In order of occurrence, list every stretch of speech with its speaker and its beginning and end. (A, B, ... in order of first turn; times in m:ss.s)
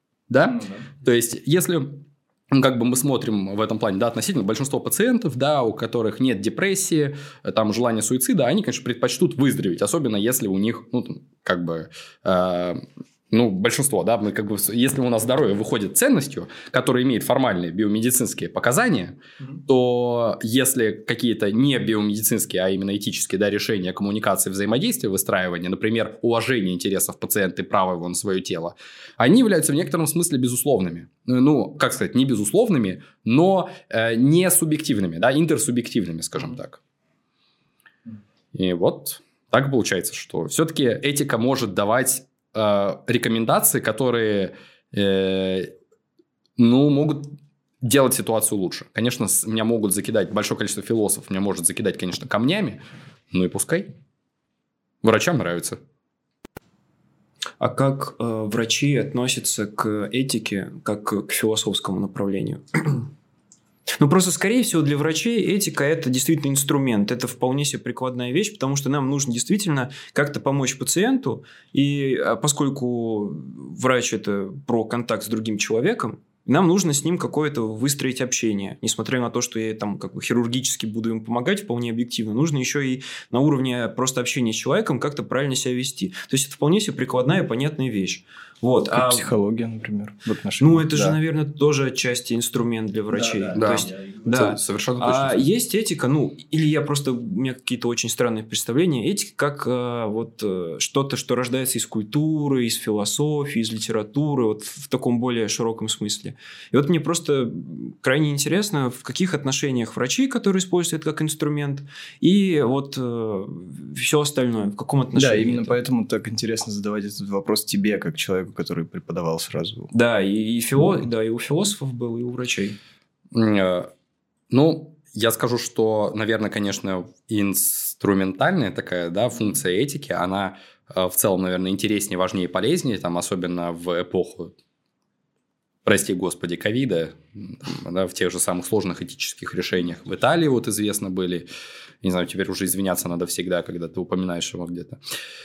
0:00.3-0:36.8 A
0:38.5-0:45.7 A
0:46.6-0:53.9 A
0:55.0-0:55.8 A
0:57.6-1:03.1 B
1:03.9-1:29.3 B
1:28.9-1:31.1 C
1:30.6-1:55.8 B
1:33.1-1:34.2 C
1:33.5-1:35.4 A
1:55.1-1:59.9 C
1:59.9-2:02.8 B
2:03.3-2:03.9 A
2:04.5-2:14.5 A
2:15.8-2:21.5 A
2:22.0-2:25.0 A